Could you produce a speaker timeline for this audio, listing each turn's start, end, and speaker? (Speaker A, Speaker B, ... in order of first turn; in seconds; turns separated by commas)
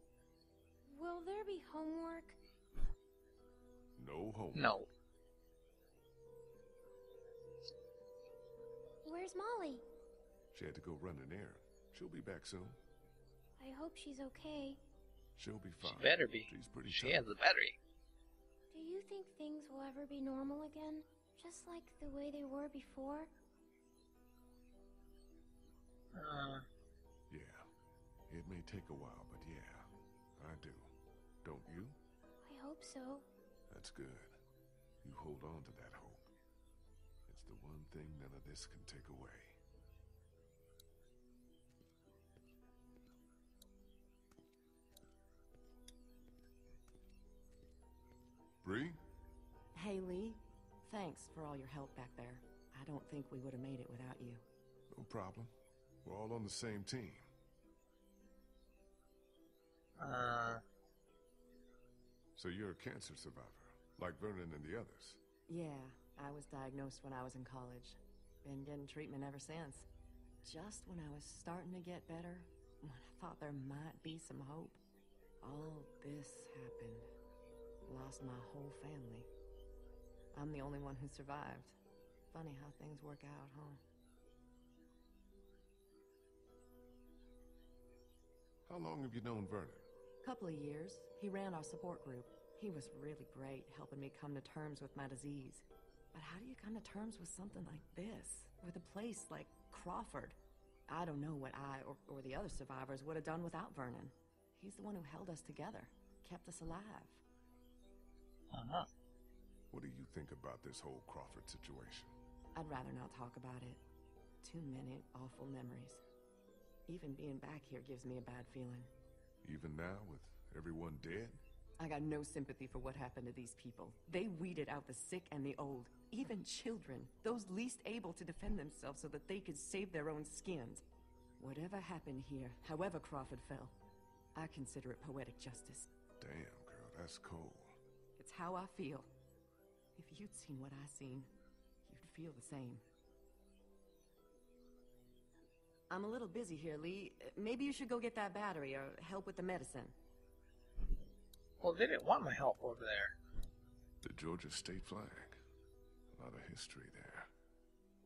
Speaker A: 0.9-2.4, Speaker B: 4.0-4.8, Speaker C: 4.5-4.9, Speaker A: 9.1-9.8, Speaker B: 10.5-12.8, Speaker A: 13.6-14.8, Speaker B: 15.4-17.3, Speaker C: 15.8-17.8, Speaker A: 18.7-23.3, Speaker C: 26.1-26.7, Speaker B: 27.3-27.7, Speaker B: 28.3-30.9, Speaker B: 31.4-32.0, Speaker A: 32.5-33.2, Speaker B: 33.7-34.4, Speaker B: 35.0-36.3, Speaker B: 37.3-39.6, Speaker B: 48.6-49.0, Speaker D: 49.7-54.4, Speaker B: 54.9-55.5, Speaker B: 56.0-57.3, Speaker C: 60.0-60.6, Speaker B: 62.4-65.2, Speaker D: 65.5-69.9, Speaker D: 70.4-74.8, Speaker D: 75.4-77.1, Speaker D: 77.9-79.3, Speaker D: 80.3-81.8, Speaker D: 82.3-83.8, Speaker B: 88.7-89.9, Speaker D: 90.2-100.4, Speaker D: 100.9-107.2, Speaker C: 108.5-108.9, Speaker B: 109.7-112.2, Speaker D: 112.5-113.8, Speaker D: 114.4-116.0, Speaker D: 116.9-118.9, Speaker B: 119.4-121.4, Speaker D: 121.8-130.8, Speaker D: 131.4-133.8, Speaker D: 134.4-135.9, Speaker B: 136.2-137.8, Speaker D: 138.2-139.1, Speaker D: 140.0-141.3, Speaker D: 141.9-142.8, Speaker D: 145.9-149.9, Speaker C: 151.6-153.2, Speaker B: 154.0-155.4, Speaker B: 156.1-157.3